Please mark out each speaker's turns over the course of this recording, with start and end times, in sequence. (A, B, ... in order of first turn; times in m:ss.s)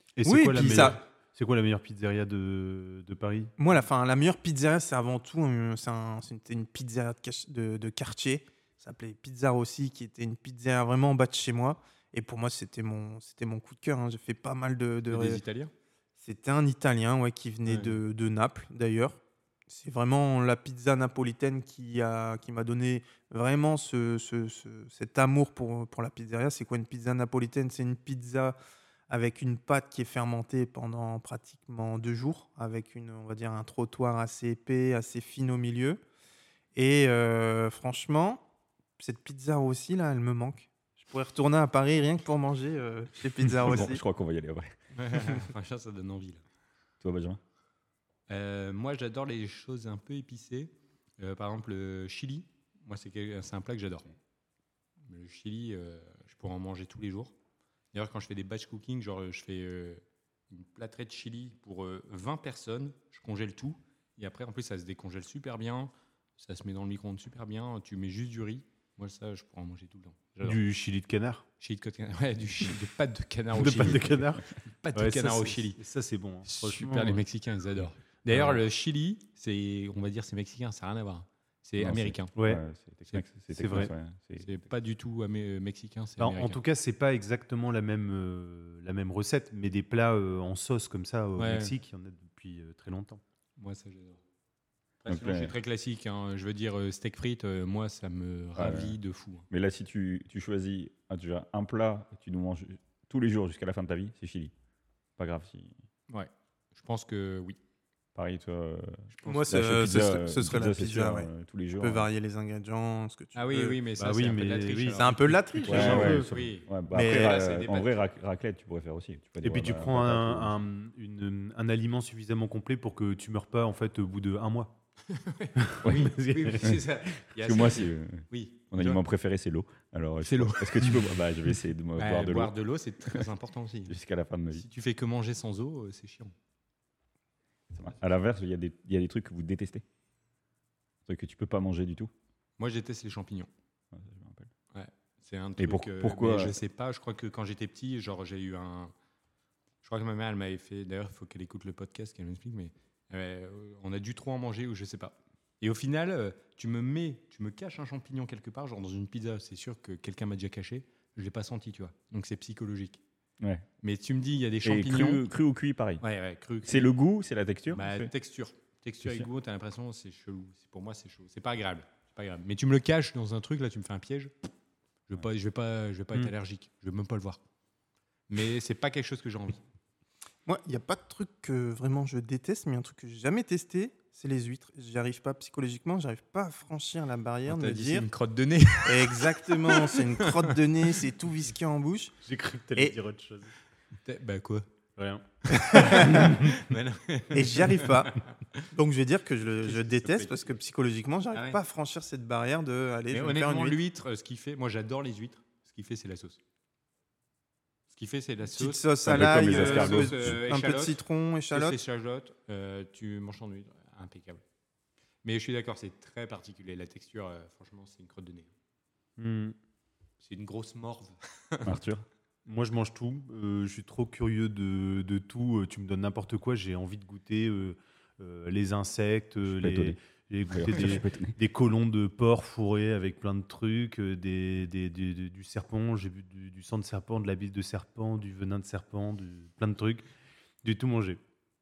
0:00.2-0:03.5 A
0:00.2-0:01.0 B
0:03.6-0:15.4 B
0:15.1-0:15.7 C
0:16.2-0:28.6 B
0:17.7-0:18.0 C
0:29.1-0:36.0 B
0:36.8-0:38.4 B
0:39.0-0:44.0 B
0:43.6-0:44.8 D
0:44.9-0:46.4 C
0:47.0-0:47.4 D
0:48.3-0:54.1 C
0:55.0-0:57.4 C
0:57.9-1:10.6 C
1:10.4-1:11.4 A
1:11.6-1:15.8 C
1:13.5-1:17.2 A
1:16.4-1:22.3 C
1:21.8-1:24.5 D
1:22.4-1:22.6 A
1:23.1-1:26.6 C
1:23.5-1:23.9 A
1:26.2-1:33.2 A
1:31.4-1:31.8 C
1:33.6-1:34.2 C
1:35.0-1:39.5 C
1:35.1-1:35.6 D
1:38.6-1:39.0 D
1:39.5-1:44.5 D
1:45.2-1:45.7 D
1:46.1-1:47.6 C
1:48.2-1:52.1 D
1:49.1-1:49.6 C
1:49.2-1:53.8 B
1:53.4-1:58.1 C
1:54.0-1:56.3 A
1:55.0-1:56.2 B
1:55.6-2:00.6 D
1:56.9-1:57.4 B
1:59.4-2:04.8 A
2:05.1-2:09.0 C
2:05.6-2:06.7 A
2:05.8-2:06.8 D
2:07.4-2:12.5 D
2:10.2-2:11.2 C
2:12.0-2:14.0 C
2:13.9-2:14.6 D
2:14.5-2:16.3 C
2:17.7-2:19.8 D
2:21.1-2:22.1 D
2:22.6-2:23.5 C
2:23.9-2:24.5 D
2:24.7-2:28.9 C
2:25.6-2:26.6 D
2:29.8-2:43.0 C
2:43.4-2:43.7 D
2:43.8-2:45.2 C
2:44.6-2:46.0 D
2:46.0-2:46.9 C
2:46.6-2:48.1 D
2:47.7-2:54.5 C
2:55.1-2:57.4 C
2:58.3-2:59.6 C
3:00.5-3:08.1 B
3:07.5-3:10.6 C
3:08.8-3:12.2 B
3:12.2-3:13.5 A
3:14.0-3:14.7 C
3:15.0-3:16.5 A
3:15.5-3:18.7 C
3:15.7-3:16.3 B
3:17.3-3:18.2 B
3:18.7-3:23.8 B
3:19.6-3:20.5 C
3:21.3-3:21.6 C
3:23.1-3:26.4 C
3:27.9-3:31.0 C
3:28.5-3:31.8 B
3:29.0-3:30.4 D
3:31.5-3:34.4 C
3:35.2-3:38.5 C
3:39.2-3:39.6 A
3:40.2-3:41.7 C
3:41.6-3:42.0 D
3:42.5-4:00.1 A
3:49.4-3:50.0 D
3:50.5-3:51.4 D
4:00.6-4:01.2 A